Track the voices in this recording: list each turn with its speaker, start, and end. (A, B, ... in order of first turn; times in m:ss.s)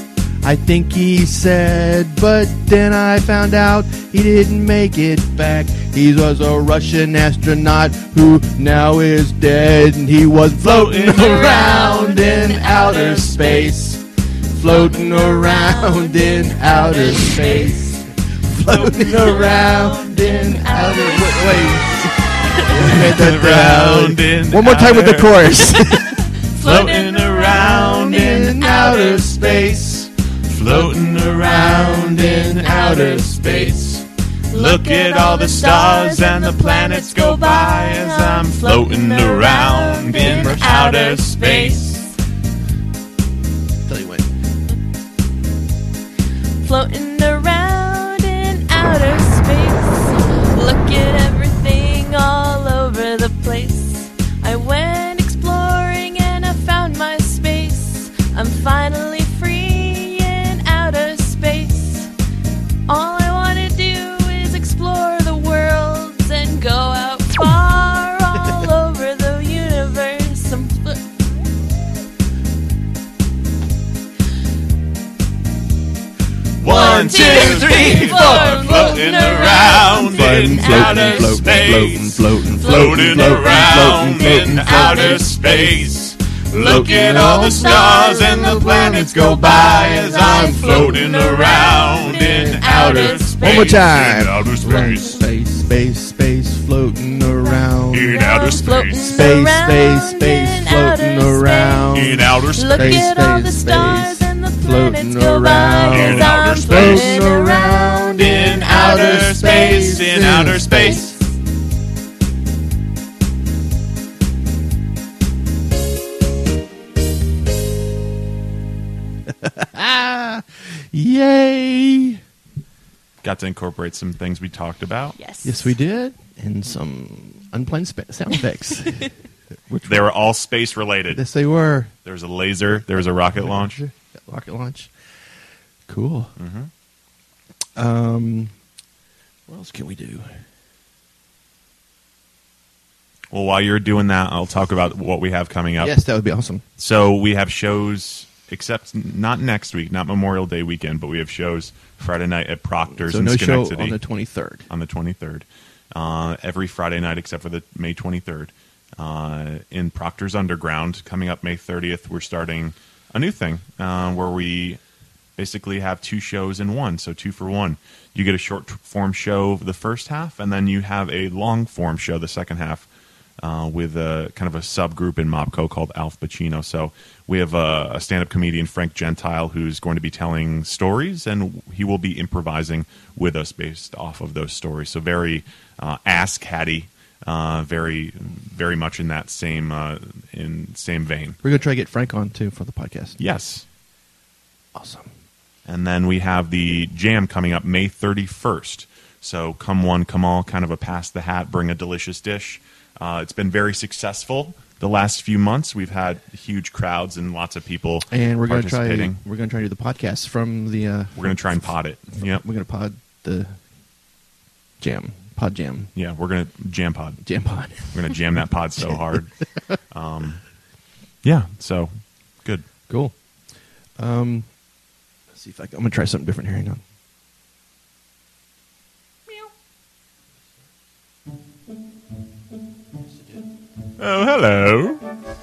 0:00.4-0:26.2 A
0:10.6-0:11.3 B
0:11.0-0:13.6 C
0:14.6-0:17.8 C
0:18.7-0:22.7 C
0:22.7-0:25.5 B
0:25.9-0:29.3 C
0:26.4-0:42.0 B
0:27.8-0:30.1 A
0:31.3-0:33.2 A
0:31.6-0:33.7 C
0:34.5-0:42.1 C
0:40.1-0:40.8 A
0:43.8-0:44.3 A
0:46.6-1:02.1 C
1:02.9-1:11.1 C
1:16.6-1:35.2 B
1:16.6-1:21.9 C
1:16.7-1:18.8 A
1:20.0-1:25.4 A
1:22.5-1:25.8 C
1:26.5-1:33.9 C
1:26.5-1:31.2 A
1:32.0-1:38.2 A
1:34.7-1:35.1 C
1:37.2-1:37.5 C
1:37.9-1:39.2 B
1:38.1-1:42.0 C
1:39.0-1:51.2 A
1:41.9-1:43.0 B
1:42.5-1:49.2 C
1:45.9-1:47.2 B
1:48.2-1:51.1 B
1:50.7-1:51.2 C
1:59.3-2:02.2 A
2:03.2-2:05.2 B
2:05.2-2:05.8 C
2:05.4-2:09.1 A
2:09.7-2:10.1 A
2:09.8-2:11.2 B
2:11.1-2:11.9 A
2:12.0-2:13.8 B
2:12.7-2:14.9 A
2:15.9-2:16.3 A
2:16.4-2:16.7 B
2:17.8-2:18.5 A
2:19.5-2:20.4 A
2:23.3-2:26.0 B
2:25.8-2:26.6 A
2:26.8-2:34.0 B
2:33.0-2:34.6 A
2:34.7-2:44.8 B
2:45.4-2:52.9 B
2:53.4-3:11.4 B
3:11.4-3:13.2 A
3:13.2-3:13.6 B
3:14.7-3:15.1 A
3:15.6-3:29.2 B
3:28.1-3:31.4 A
3:31.2-3:32.4 B
3:32.2-3:33.6 A
3:34.8-3:35.9 A
3:35.9-3:40.4 B
3:37.2-3:38.2 A
3:38.8-3:39.1 A
3:41.2-3:42.6 B
3:42.9-3:43.2 A
3:44.0-3:44.5 A
3:45.3-3:46.8 A
3:53.0-3:53.4 A
3:54.0-3:55.0 B